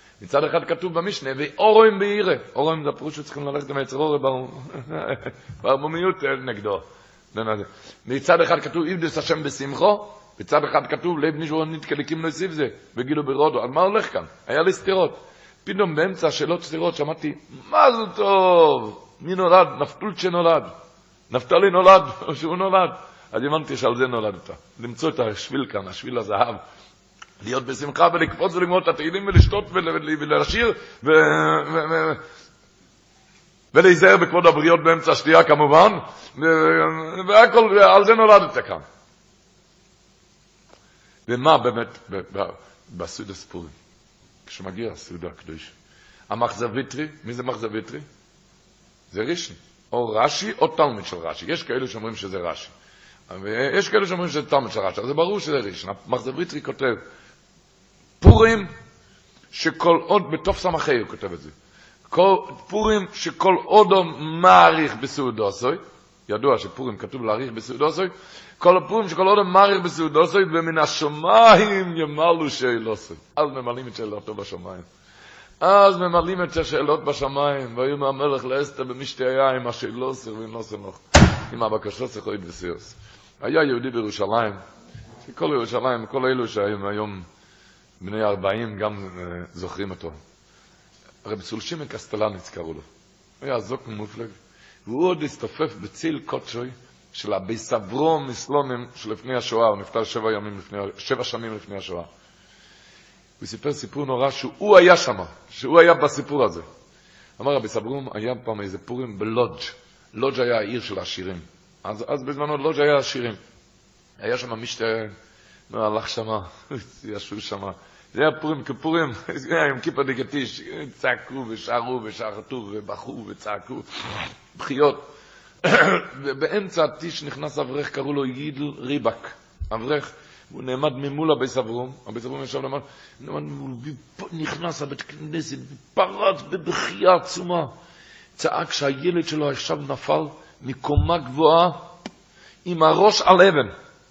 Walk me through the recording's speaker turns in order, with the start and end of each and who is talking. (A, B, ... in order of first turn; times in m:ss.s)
0:00.2-0:20.7 A
0:21.3-0:26.6 A
0:27.4-0:32.2 A
0:33.7-0:38.8 A
0:41.3-0:43.7 A
0:44.4-0:45.7 A
0:46.3-0:48.0 A
0:49.1-0:52.7 A
0:53.3-0:57.0 A
0:58.2-0:58.7 A
0:59.5-1:01.5 A
1:02.1-1:14.8 A
1:15.6-1:24.6 A
1:25.2-1:27.2 A
1:28.0-1:30.2 A
1:31.2-1:32.8 A
1:33.4-1:42.1 A
1:43.4-1:46.6 A
1:47.4-1:53.4 A
1:54.2-1:55.1 A
1:55.7-2:03.9 A
2:04.5-2:05.0 A
2:05.6-2:17.7 A
2:18.4-2:21.9 A
2:22.6-2:23.7 A